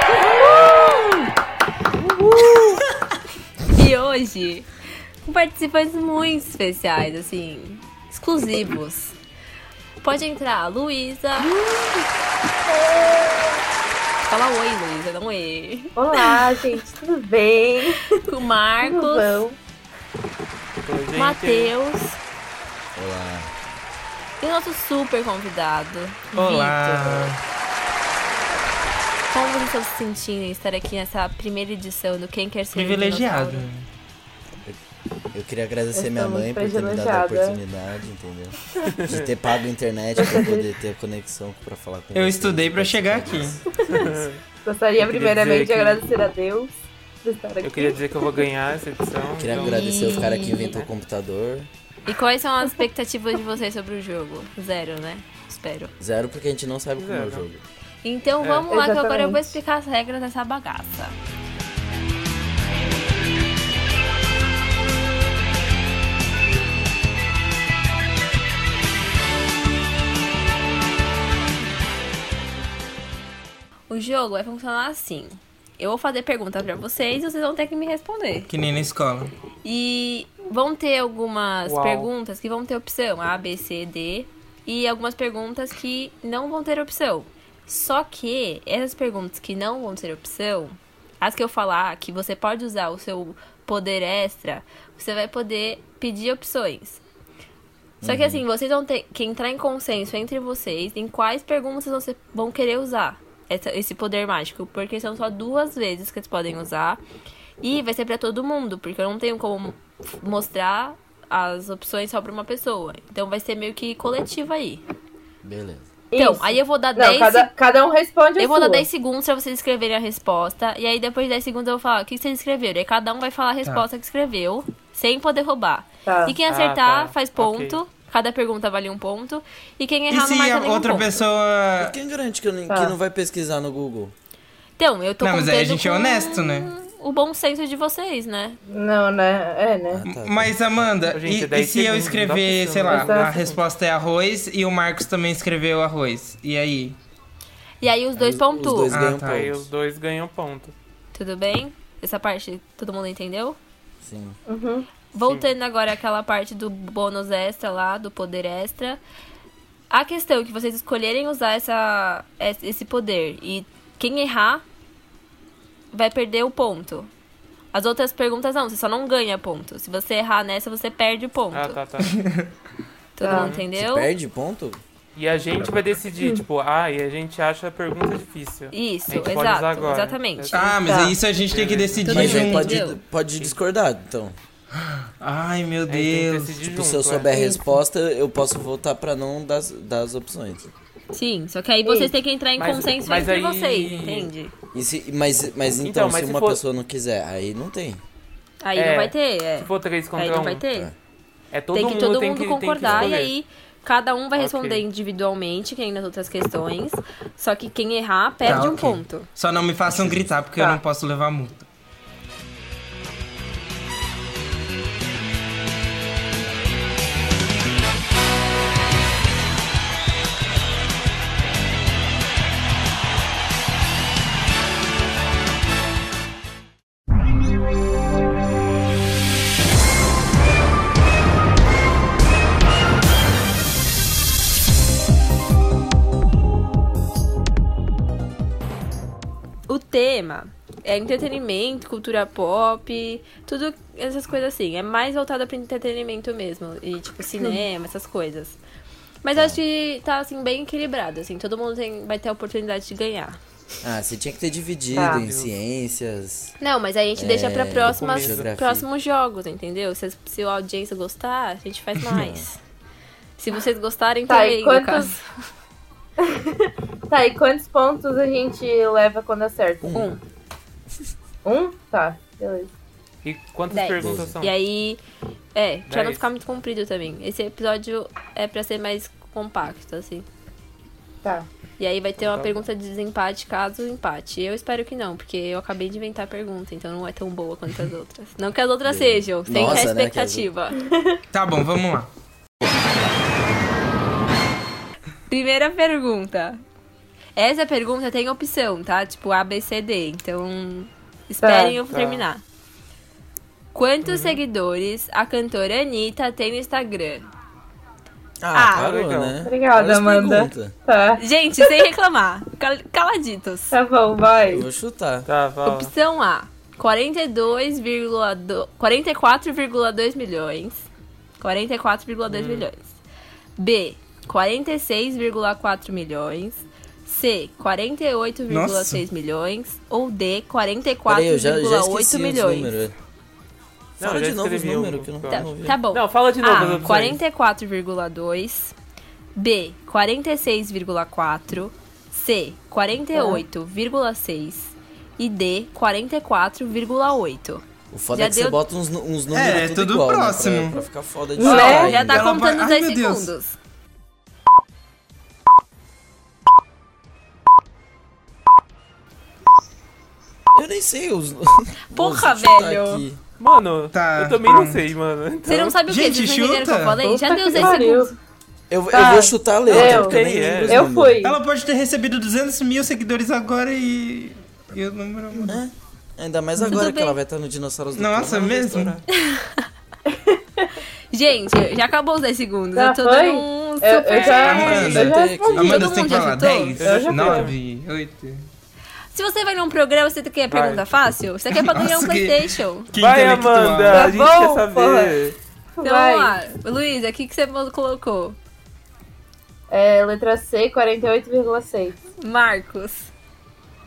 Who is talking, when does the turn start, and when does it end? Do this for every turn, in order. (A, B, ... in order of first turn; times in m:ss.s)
0:00.4-0:00.7 A
0:02.6-0:02.9 B
0:03.7-0:04.7 A
0:05.2-0:09.2 A
0:10.0-0:11.5 A
0:11.5-0:12.0 C
0:12.7-0:13.5 C
0:14.3-0:16.5 A
0:16.0-0:18.2 C
0:18.1-0:19.4 A
0:18.8-0:19.6 C
0:20.8-0:21.7 D
0:21.2-0:22.2 A
0:23.0-0:23.5 E
0:24.4-0:26.7 A
0:26.3-0:27.4 B
0:26.3-0:27.3 C
0:29.3-0:33.7 A
0:32.7-0:33.8 B
0:35.3-0:43.6 E
0:36.0-0:37.6 C
0:38.8-0:39.3 D
0:40.2-0:40.6 C
0:42.2-0:43.6 B
0:43.8-0:48.5 C
0:43.8-0:44.4 D
0:45.0-0:46.0 D
0:47.6-0:50.9 D
0:49.4-0:51.7 E
0:49.5-0:50.8 A
0:52.1-0:55.9 A
0:56.0-0:57.6 E
0:57.0-0:57.4 D
0:58.0-1:01.2 A
0:58.4-0:58.7 D
0:58.7-0:59.5 C
1:13.9-1:18.5 A
1:18.5-1:19.3 B
1:19.6-1:37.0 A
1:21.6-1:22.1 D
1:38.0-1:38.4 E
1:38.0-1:47.0 A
1:47.6-1:54.8 A
1:55.4-1:55.8 E
1:56.1-1:58.8 C
1:56.1-1:57.5 A
1:58.4-2:11.2 A
2:06.0-2:06.4 C
2:06.5-2:07.8 D
2:10.1-2:11.9 B
2:11.8-2:14.1 E
2:12.7-2:12.9 C
2:14.8-2:18.6 A
2:15.2-2:16.7 B
2:18.7-2:20.0 C
2:19.9-2:20.5 E
2:20.1-2:27.0 B
2:21.1-2:23.6 D
2:22.9-2:23.3 C
2:27.8-2:29.0 A
2:28.2-2:29.7 E
2:28.9-2:29.4 B
2:29.1-2:30.7 D
2:31.1-2:33.6 A
2:34.0-2:34.4 E
2:34.5-2:34.9 C
2:35.1-2:39.0 A
2:35.2-2:35.5 D
2:39.9-2:44.6 A
2:45.9-2:47.1 A
2:47.7-2:51.8 A
2:51.5-2:52.1 D
2:52.0-2:52.5 B
2:53.2-2:54.1 A
2:53.2-2:53.5 C
2:53.2-2:53.6 D
2:53.8-2:54.8 E
2:55.2-3:00.7 D
2:58.7-3:00.7 A
3:00.5-3:02.8 B
3:00.8-3:01.2 C
3:01.5-3:02.3 D
3:02.0-3:03.0 A
3:02.1-3:04.4 E
3:04.8-3:06.6 B
3:05.9-3:07.3 D
3:06.7-3:10.7 E
3:07.3-3:07.6 C
3:11.1-3:14.5 A
3:11.8-3:12.1 C
3:12.6-3:14.3 D
3:14.7-3:18.0 E
3:15.8-3:16.6 D
3:18.6-3:20.9 A
3:18.8-3:20.6 D
3:21.5-3:23.3 D
3:21.7-3:29.3 A
3:22.8-3:23.1 E
3:24.4-3:24.8 D
3:28.4-3:31.7 B
3:29.8-3:30.3 E
3:59.7-4:08.6 A
4:09.2-4:13.4 A
4:13.8-4:16.6 E
4:14.9-4:15.5 D
4:14.9-4:15.2 C
4:16.6-4:22.6 A
4:17.2-4:18.9 E
4:17.8-4:18.5 D
4:22.0-4:22.5 E
4:23.4-4:25.3 A
4:24.3-4:25.1 C
4:26.2-4:30.0 C
4:29.8-4:30.1 E
4:29.9-4:30.2 A
4:31.4-4:32.7 C
4:33.2-4:34.5 D
4:33.7-4:35.0 A
4:34.0-4:34.4 E
4:35.6-4:40.3 A
4:35.9-4:36.3 D
4:41.8-4:50.8 A
4:42.3-4:42.6 D
4:48.8-4:50.5 E
4:50.8-4:51.2 C
4:51.3-4:52.1 B
4:55.3-4:56.6 A
4:57.4-5:02.4 A
5:01.4-5:01.8 C
5:01.9-5:02.2 D
5:03.7-5:07.3 A
5:04.0-5:04.4 D
5:08.4-5:10.7 E
5:08.5-5:08.9 A
5:08.7-5:09.4 D
5:09.4-5:11.7 C
5:11.2-5:13.8 A
5:13.7-5:14.6 C
5:14.4-5:15.3 E
5:15.2-5:15.9 D
5:15.6-5:20.8 A
5:21.4-5:22.9 A
5:22.3-5:22.6 D
5:23.6-5:32.7 A
5:28.5-5:29.0 B
5:31.1-5:32.9 E
5:34.0-5:35.8 E
5:34.0-5:37.2 D
5:35.3-5:38.8 A
5:39.4-5:48.6 A
5:43.1-5:43.4 C
5:47.9-5:52.3 E
5:49.3-5:50.8 B
5:51.4-5:52.0 C
5:51.4-5:53.6 A
5:51.7-5:53.3 B
6:00.5-6:03.2 E
6:01.9-6:03.0 A
6:03.4-6:05.7 D
6:03.9-6:04.9 B
6:05.5-6:08.1 A
6:05.7-6:07.0 B
6:07.0-6:08.1 C
6:08.7-6:11.2 E
6:08.9-6:11.4 C
6:09.7-6:10.9 D
6:11.2-6:15.6 B
6:15.4-6:19.0 E
6:16.7-6:17.2 A
6:18.0-6:19.0 B
6:19.1-6:19.7 A
6:20.1-6:20.7 C
6:21.1-6:26.8 A
6:22.8-6:25.9 C
6:24.2-6:28.4 B
6:24.9-6:25.9 E
6:26.8-6:27.6 D
6:26.8-6:27.5 C
6:29.1-6:32.9 A
6:30.5-6:30.8 D
6:31.5-6:34.1 B
6:33.0-6:35.4 D
6:33.9-6:35.2 C
6:35.8-6:36.4 C
6:35.8-6:38.4 A
6:39.7-6:42.0 C
6:42.2-6:43.1 A